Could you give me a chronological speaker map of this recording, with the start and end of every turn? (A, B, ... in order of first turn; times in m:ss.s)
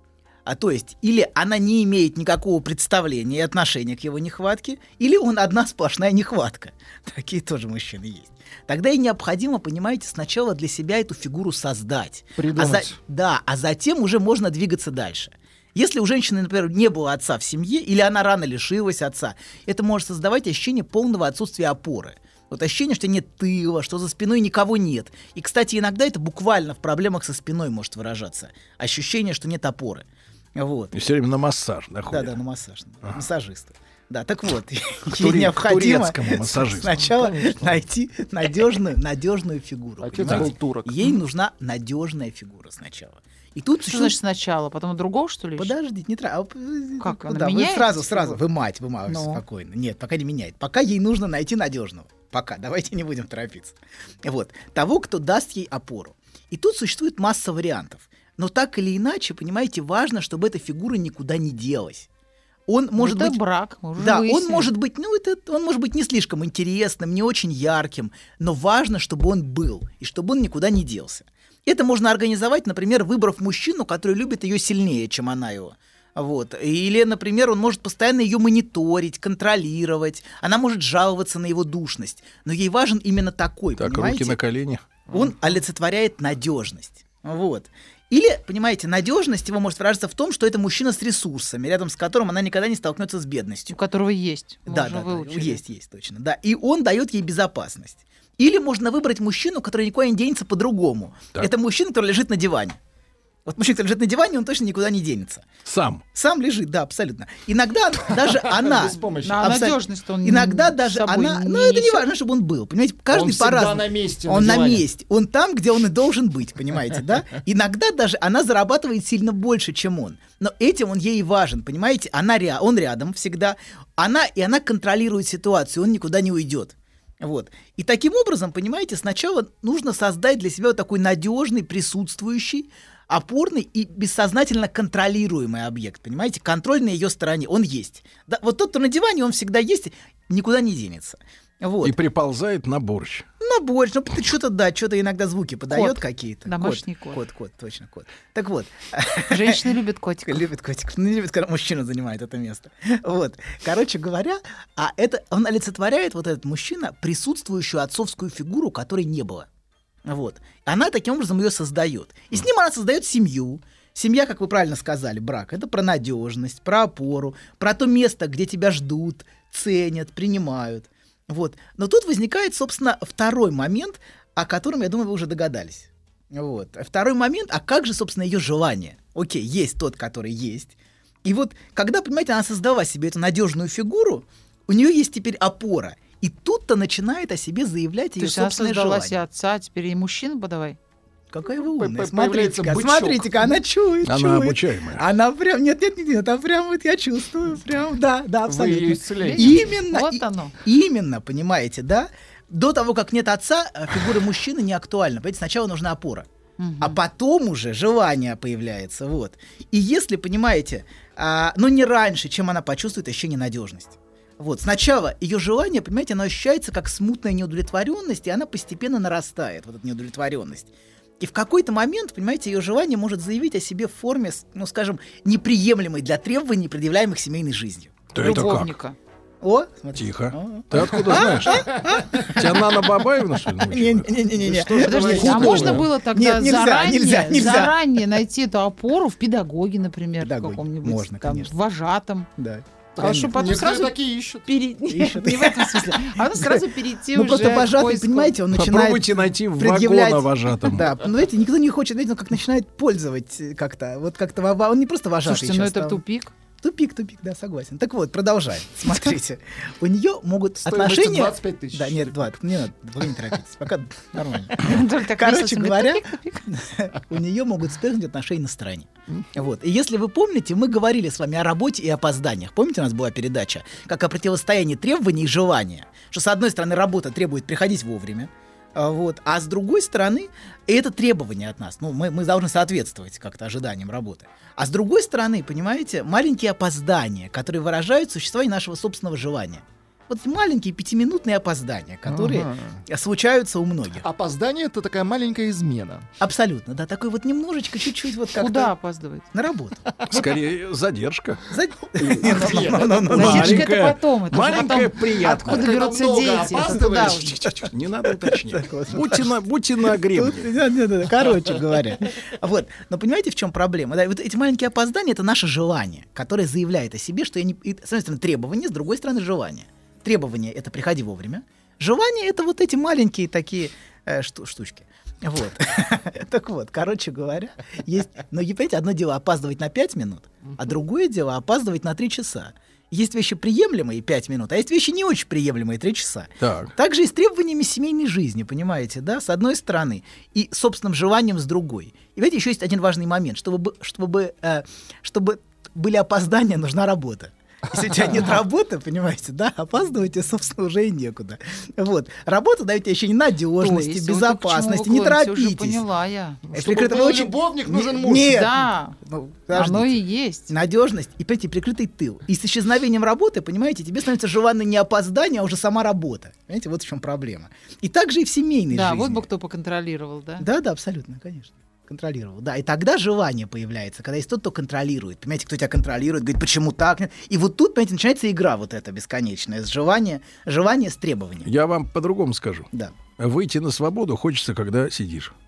0:00.4-0:30.9 A
0:12.4-0:13.0 B
0:30.9-0:32.3 C
0:32.1-0:44.2 A
0:35.2-0:37.2 C
0:37.2-0:37.7 B
0:40.0-0:41.1 B
0:43.8-0:45.8 D
0:45.6-1:02.1 A
0:47.0-0:48.4 D
0:49.1-0:49.4 D
1:02.7-1:03.4 A
1:03.0-1:04.7 D
1:04.0-1:24.4 A
1:23.8-1:24.8 C
1:25.1-1:33.8 A
1:33.7-1:35.6 D
1:34.6-1:42.8 A
1:43.4-1:45.4 A
1:45.6-1:46.0 C
1:46.1-2:22.0 A
1:48.2-1:49.5 B
1:49.2-1:52.1 D
1:53.1-1:54.8 B
2:21.8-2:23.2 C
2:23.4-2:29.6 A
2:25.7-2:27.2 D
2:29.2-2:30.4 D
2:30.2-2:39.5 A
2:40.0-3:09.2 A
3:08.2-3:10.8 D
3:11.3-3:26.3 A
3:11.6-3:13.5 B
3:14.0-3:15.0 C
3:18.4-3:19.8 B
3:19.2-3:20.5 D
3:26.6-3:27.0 D
3:26.8-3:48.0 A
3:48.1-3:48.7 C
3:48.1-3:49.0 D
3:49.4-3:58.0 A
3:50.0-3:55.8 C
3:51.1-3:51.9 B
3:54.7-3:55.8 B
3:54.8-4:02.3 D
4:00.2-4:01.5 A
4:02.4-4:03.4 A
4:03.0-4:04.4 B
4:03.0-4:08.4 D
4:04.9-4:16.0 A
4:08.5-4:10.9 C
4:15.2-4:16.3 D
4:16.6-4:54.0 A
4:20.6-4:22.1 B
4:24.5-4:26.5 D
4:52.1-4:52.8 B
4:54.0-4:56.1 B
4:56.2-4:58.7 A
4:58.3-4:59.3 D
4:59.3-4:59.8 A
5:00.1-5:01.4 C
5:01.5-5:03.7 A
5:02.0-5:03.2 B
5:03.0-5:05.7 C
5:03.1-5:07.4 D
5:05.3-5:07.4 B
5:06.9-5:10.5 C
5:08.1-5:55.8 A
5:36.4-5:36.7 C
5:53.6-5:56.4 D
5:56.5-5:58.5 B
5:56.5-6:09.3 A
5:58.2-5:59.0 D
5:59.5-6:00.5 D
6:08.7-6:10.5 D
6:10.4-6:21.5 A
6:21.4-6:25.3 C